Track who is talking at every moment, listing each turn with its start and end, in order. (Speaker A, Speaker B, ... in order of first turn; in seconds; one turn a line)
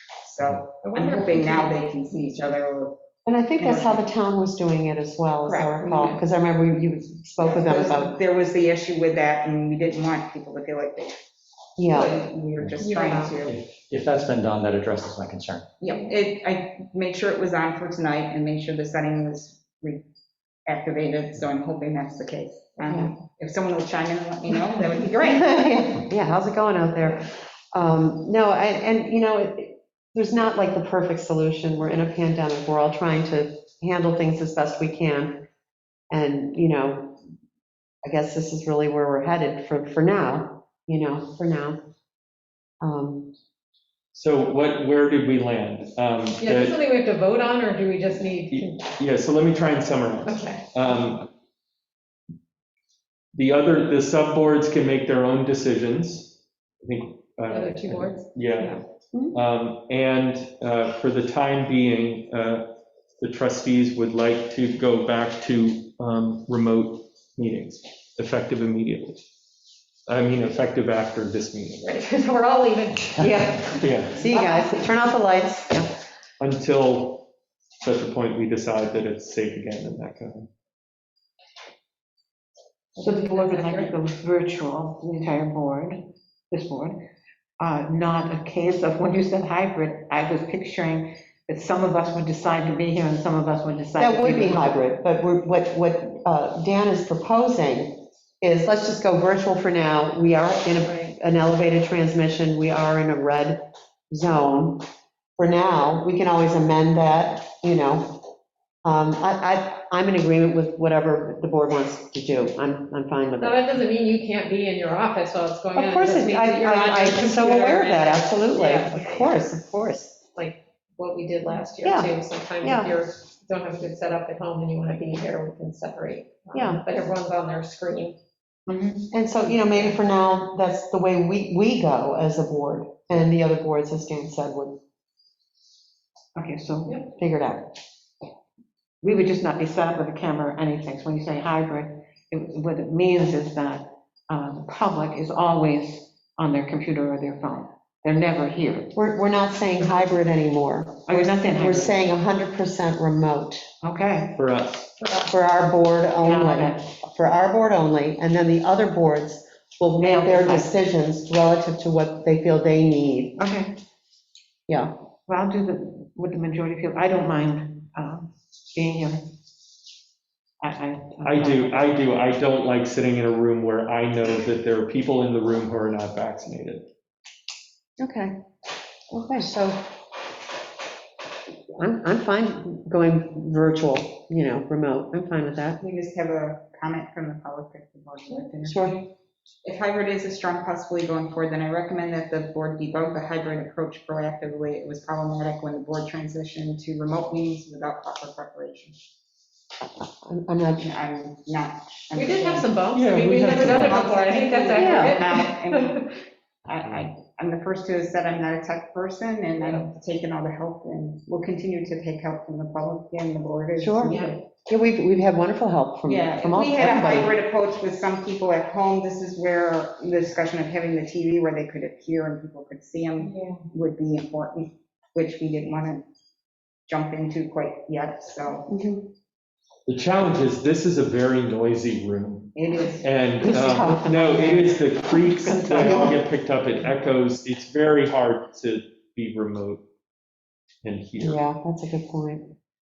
Speaker A: 0.2-3.0
Speaker B: 0.8-2.5
Speaker C: 3.3-8.2
Speaker A: 3.6-4.0
Speaker A: 5.5-5.8
Speaker B: 5.8-6.2
Speaker A: 7.4-11.2
Speaker C: 11.8-12.2
Speaker A: 11.9-13.6
Speaker B: 11.9-12.2
Speaker B: 12.8-13.4
Speaker D: 13.4-15.7
Speaker A: 15.8-20.0
Speaker B: 15.8-16.1
Speaker A: 20.7-25.8
Speaker C: 25.2-35.5
Speaker C: 36.1-37.2
Speaker C: 38.0-41.8
Speaker C: 42.8-43.3
Speaker E: 44.1-46.8
Speaker B: 46.4-48.9
Speaker E: 48.5-51.3
Speaker B: 50.3-50.7
Speaker E: 53.3-58.8
Speaker B: 57.5-58.8
Speaker C: 59.1-59.4
Speaker E: 59.3-62.7
Speaker E: 63.2-69.2
Speaker E: 70.1-71.9
Speaker B: 71.8-74.8
Speaker C: 73.2-75.9
Speaker E: 73.8-74.2
Speaker E: 76.4-77.3
Speaker E: 77.8-80.5
Speaker B: 83.0-84.0
Speaker F: 83.0-87.0
Speaker F: 87.6-94.8
Speaker C: 94.0-104.8
Speaker B: 100.8-101.2
Speaker C: 105.4-108.2
Speaker C: 108.8-113.6
Speaker B: 113.4-119.4
Speaker C: 115.7-120.2
Speaker B: 120.3-128.2
Speaker C: 121.8-122.9
Speaker C: 126.5-126.8
Speaker F: 128.7-129.1
Speaker C: 129.1-134.8
Speaker F: 136.3-137.1
Speaker C: 137.2-137.8
Speaker F: 139.0-148.9
Speaker C: 148.9-153.6
Speaker F: 151.1-152.0
Speaker F: 153.8-154.4
Speaker E: 154.4-154.9
Speaker B: 155.0-155.3
Speaker C: 155.2-163.4
Speaker F: 156.2-156.8
Speaker F: 160.0-160.7
Speaker F: 163.4-163.8
Speaker C: 164.7-164.9
Speaker F: 165.3-169.3
Speaker F: 170.6-171.8
Speaker E: 171.2-176.9
Speaker C: 178.0-178.3
Speaker C: 179.1-179.8
Speaker C: 181.8-185.8
Speaker A: 185.8-189.1
Speaker C: 188.7-189.0
Speaker A: 189.6-199.0
Speaker C: 200.0-200.9
Speaker A: 200.8-202.7
Speaker B: 202.2-206.1
Speaker E: 202.9-204.1
Speaker A: 203.4-206.1
Speaker C: 204.7-205.2
Speaker A: 206.7-214.4
Speaker B: 209.6-209.9
Speaker C: 213.8-217.4
Speaker B: 214.1-214.4
Speaker A: 216.1-226.0
Speaker B: 223.2-223.6
Speaker A: 226.9-228.7
Speaker C: 228.7-229.1
Speaker E: 229.9-239.8
Speaker A: 232.6-233.1
Speaker F: 233.4-236.2
Speaker C: 233.5-234.7
Speaker C: 235.8-236.1
Speaker E: 240.8-241.4
Speaker C: 241.2-242.5